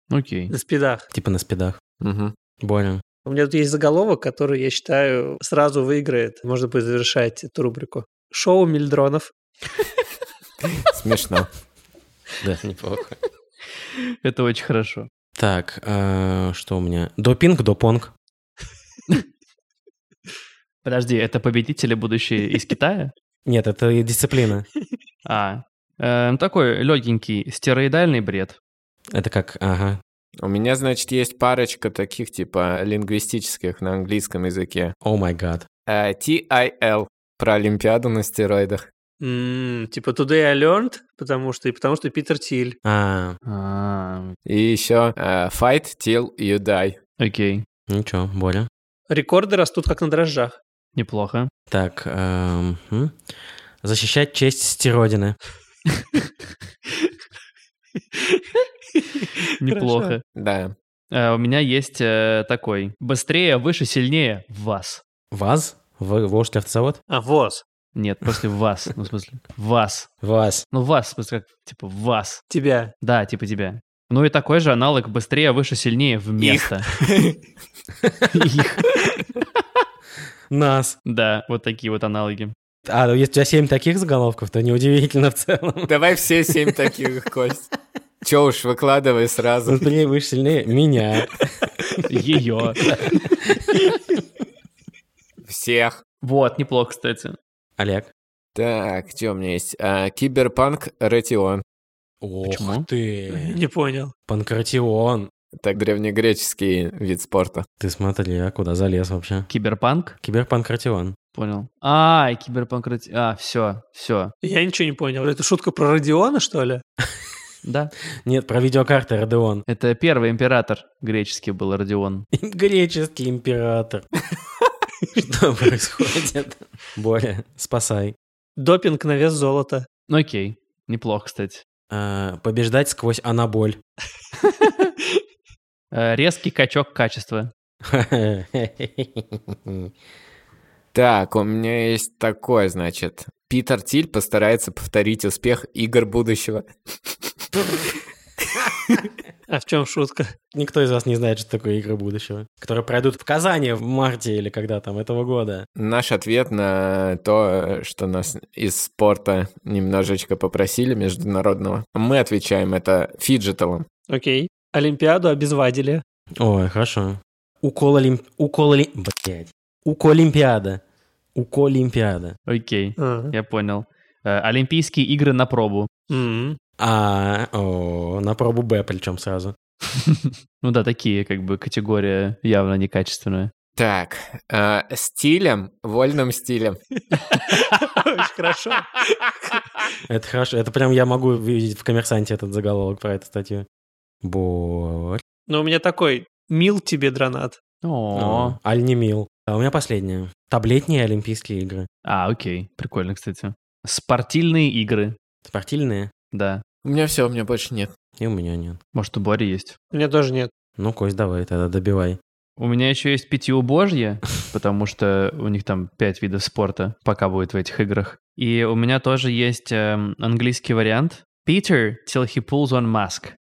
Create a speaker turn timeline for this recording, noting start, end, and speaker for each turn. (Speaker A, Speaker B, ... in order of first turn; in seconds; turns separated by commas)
Speaker A: 0.1-0.5, Speaker B: 0.5-1.1, Speaker C: 1.1-1.8, Speaker D: 2.0-2.3, Speaker C: 2.6-3.0, Speaker B: 3.2-9.3, Speaker D: 10.8-11.5, Speaker C: 12.4-13.2, Speaker A: 14.2-15.1, Speaker C: 15.4-18.1, Speaker A: 20.8-23.1, Speaker C: 23.4-24.6, Speaker A: 25.2-28.6, Speaker C: 29.1-30.0, Speaker D: 30.4-34.9, Speaker C: 35.0-35.7, Speaker D: 35.9-38.8, Speaker B: 39.2-42.8, Speaker C: 42.8-43.4, Speaker A: 43.5-44.4, Speaker D: 44.5-47.0, Speaker A: 47.2-47.6, Speaker C: 47.9-48.7, Speaker B: 49.1-50.6, Speaker A: 50.9-51.5, Speaker C: 51.7-53.2, Speaker C: 53.8-55.4, Speaker B: 59.2-60.1, Speaker A: 59.6-60.2, Speaker D: 60.3-60.7, Speaker A: 61.1-65.0, Speaker C: 65.3-67.0, Speaker B: 67.1-67.6, Speaker A: 67.9-70.1, Speaker C: 70.2-70.6, Speaker A: 70.7-72.4, Speaker B: 72.5-72.9, Speaker A: 73.0-76.9, Speaker D: 76.4-77.4, Speaker C: 78.1-78.5, Speaker A: 78.3-78.8, Speaker C: 80.5-81.0, Speaker A: 81.0-82.5, Speaker C: 82.8-86.0, Speaker D: 85.9-87.7, Speaker D: 88.2-89.8, Speaker C: 89.7-92.0, Speaker A: 92.1-93.0, Speaker C: 92.8-93.9, Speaker D: 95.5-96.0, Speaker A: 96.2-97.4, Speaker C: 97.8-98.1, Speaker D: 98.5-101.6, Speaker C: 102.2-103.6, Speaker A: 102.5-102.8, Speaker B: 103.3-104.1, Speaker C: 104.3-105.3, Speaker D: 105.5-107.7, Speaker C: 107.8-109.5, Speaker A: 109.5-110.2, Speaker C: 110.2-111.2, Speaker A: 111.3-114.3, Speaker B: 114.4-116.8, Speaker A: 117.6-117.9, Speaker C: 118.2-119.6, Speaker A: 119.7-122.3, Speaker C: 122.3-124.1, Speaker C: 125.1-128.2, Speaker B: 128.6-129.9, Speaker A: 130.1-131.6, Speaker C: 131.9-133.8, Speaker A: 135.9-137.5, Speaker C: 137.8-139.9, Speaker D: 140.9-147.1, Speaker B: 149.5-150.3, Speaker C: 150.5-155.6, Speaker D: 155.8-163.8, Speaker B: 164.1-166.0, Speaker C: 166.4-170.8, Speaker C: 171.3-172.3, Speaker A: 172.5-175.9, Speaker B: 173.0-173.3, Speaker B: 176.1-176.6, Speaker C: 176.8-179.5, Speaker A: 180.0-183.5, Speaker D: 183.8-186.8, Speaker B: 187.3-188.9, Speaker C: 190.1-193.7, Speaker C: 194.2-195.2, Speaker B: 195.5-197.6, Speaker A: 197.8-198.6, Speaker C: 198.1-201.9, Speaker A: 202.0-205.2, Speaker C: 205.4-206.1, Speaker A: 206.3-206.6, Speaker D: 206.8-207.9, Speaker C: 208.2-208.8, Speaker A: 208.9-209.8, Speaker B: 209.9-210.5, Speaker C: 210.8-212.2, Speaker A: 212.6-223.3